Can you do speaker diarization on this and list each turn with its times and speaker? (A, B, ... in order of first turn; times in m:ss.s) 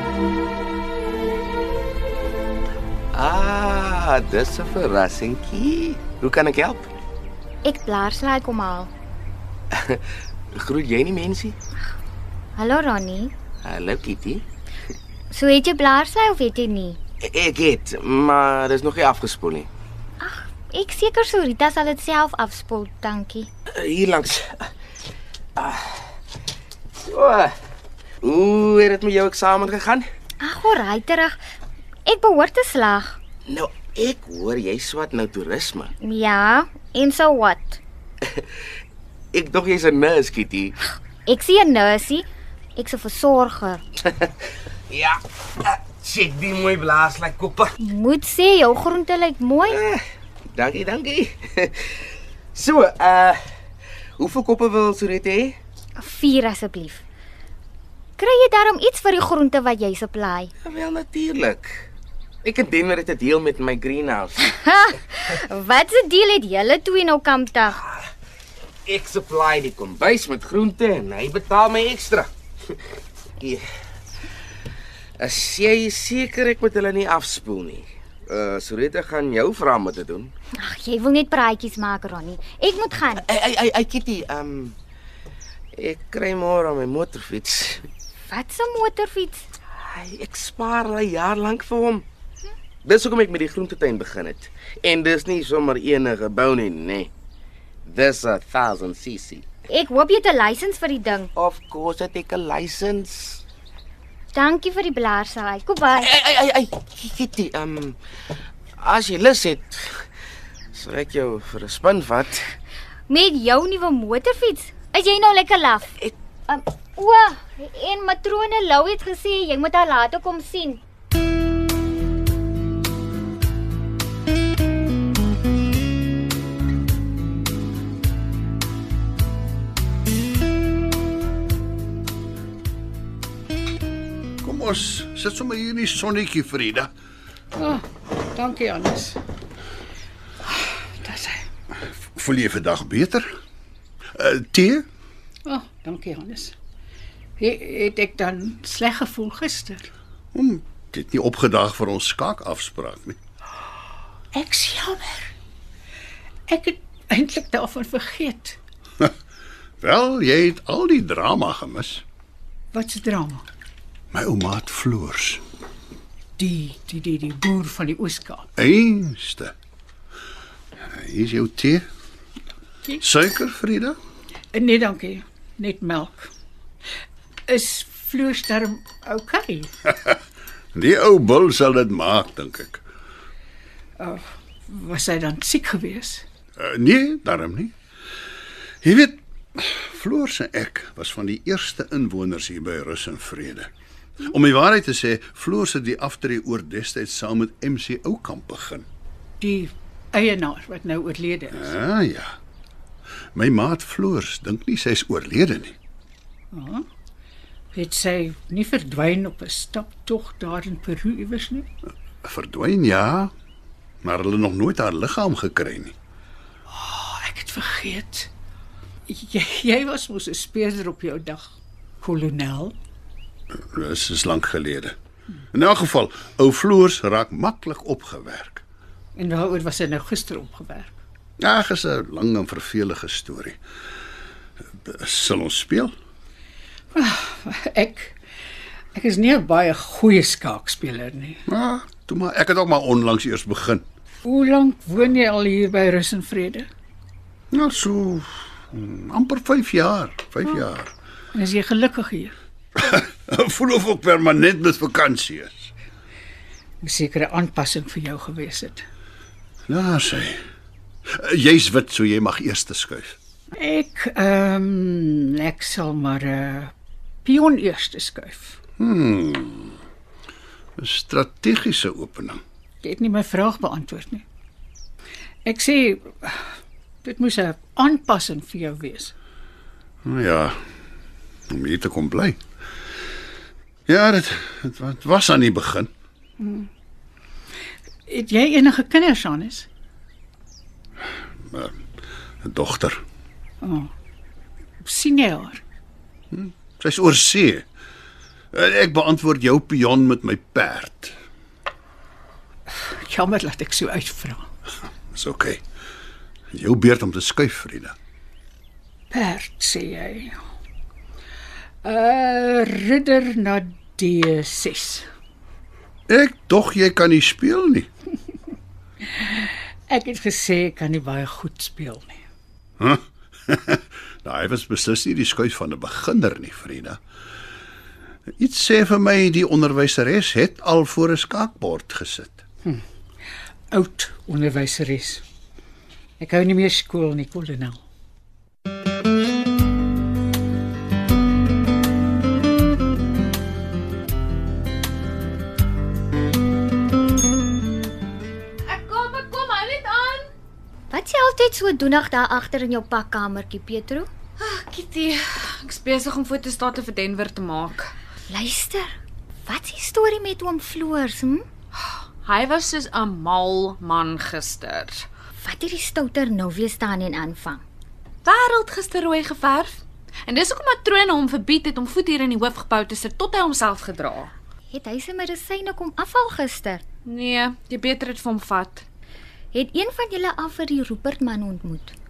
0:03.1-0:06.9 A
0:07.6-0:08.9 B
0:09.7-0:10.0 A
0:10.5-0:11.6 A
0:12.6-0:13.3 B
0:13.6-0:14.4 A
0:15.3-0:17.0 B
0:17.2-0:19.7 A
0:20.2-0:23.5 B
0:23.8-0:24.7 A
0:25.6-0:26.1 A
0:27.0-0:27.5 A
0:28.2-0:30.1 A
0:30.4-0:31.4 B
0:32.1-0:33.2 B
0:33.5-0:35.9 A
0:36.0-0:37.8 B
0:39.3-0:40.8 A
0:41.3-0:43.8 B
0:44.9-0:47.7 A
0:47.8-0:49.8 B
0:49.7-0:50.0 A
0:50.5-0:52.0 A
0:52.6-0:53.4 A
0:54.2-0:55.6 A
0:56.0-0:57.0 B
0:58.2-1:00.5 B
1:00.6-1:01.9 A
1:02.4-1:04.4 A
1:04.4-1:07.8 B
1:08.9-1:12.3 A
1:15.2-1:20.3 A
1:20.6-1:23.2 B
1:23.2-1:24.8 A
1:25.8-1:27.9 A
1:28.3-1:29.5 B
1:29.8-1:32.1 A
1:32.8-1:37.1 A
1:37.8-1:39.5 A
1:39.7-1:41.3 B
1:41.4-1:43.4 A
1:44.3-1:46.1 B
1:46.0-1:48.0 A
1:48.8-1:50.0 A
1:50.7-1:52.5 A
1:53.1-1:56.0 B
1:56.5-2:00.8 B
2:14.4-2:16.9 C
2:17.6-2:19.2 D
2:20.5-2:21.4 D
2:22.2-2:23.3 C
2:24.2-2:24.9 C
2:25.5-2:26.6 D
2:27.4-2:29.9 D
2:30.3-2:33.2 C
2:34.3-2:35.3 D
2:36.5-2:38.6 D
2:39.8-2:42.0 C
2:42.7-2:43.4 D
2:44.1-2:45.4 C
2:46.4-2:48.5 D
2:48.6-2:49.5 C
2:50.9-2:51.8 C
2:53.0-2:54.0 C
2:54.5-2:56.3 D
2:57.5-2:59.7 D
3:00.8-3:02.8 C
3:04.0-3:06.2 D
3:06.6-3:07.7 C
3:08.8-3:18.9 C
3:19.4-3:21.7 D
3:21.6-3:22.4 C
3:23.4-3:25.8 C
3:26.5-3:26.8 D
3:27.7-3:31.7 D
3:32.2-3:33.3 C
3:34.0-3:36.0 C
3:36.7-3:38.3 D
3:39.1-3:41.5 D
3:42.0-3:42.7 D
3:43.7-3:45.0 C
3:45.5-3:48.6 C
3:49.2-3:50.9 D
3:51.4-3:53.6 C
3:54.8-3:55.9 C
3:56.9-3:58.2 D
3:59.0-4:01.4 D
4:01.5-4:03.8 C
4:04.2-4:06.7 D
4:07.5-4:10.9 C
4:11.3-4:12.4 D
4:12.8-4:15.7 C
4:16.8-4:18.8 D
4:19.7-4:20.4 C
4:21.1-4:23.2 C
4:23.5-4:26.7 D
4:27.2-4:28.6 D
4:28.8-4:29.8 C
4:30.8-4:32.4 C
4:32.8-4:34.2 D
4:35.4-4:36.4 D
4:37.0-4:39.1 D
4:40.1-4:40.6 C
4:41.5-4:42.4 C
4:43.9-4:45.9 C
4:46.4-4:46.7 D
4:48.1-4:49.7 D
4:51.5-4:51.8 C
4:52.4-4:53.0 C
4:53.6-4:53.9 D
4:54.8-4:55.6 D
4:56.3-4:57.6 C
4:58.5-5:01.2 C
5:02.7-5:04.4 D
5:05.1-5:05.6 C
5:06.5-5:08.0 C
5:09.1-5:10.4 D
5:11.8-5:15.0 D
5:16.1-5:17.9 C
5:19.0-5:22.2 D
5:22.8-5:27.0 C
5:28.4-5:32.4 C
5:33.7-5:35.2 D
5:36.2-5:37.8 D
5:48.7-5:50.3 E
5:50.9-5:54.1 B
5:54.4-5:57.9 E
5:58.3-5:58.9 B
5:59.4-6:01.5 B
6:01.8-6:05.0 E
6:05.4-6:07.6 B
6:08.2-6:14.3 E
6:14.7-6:16.8 B
6:17.1-6:18.8 E
6:19.5-6:21.9 B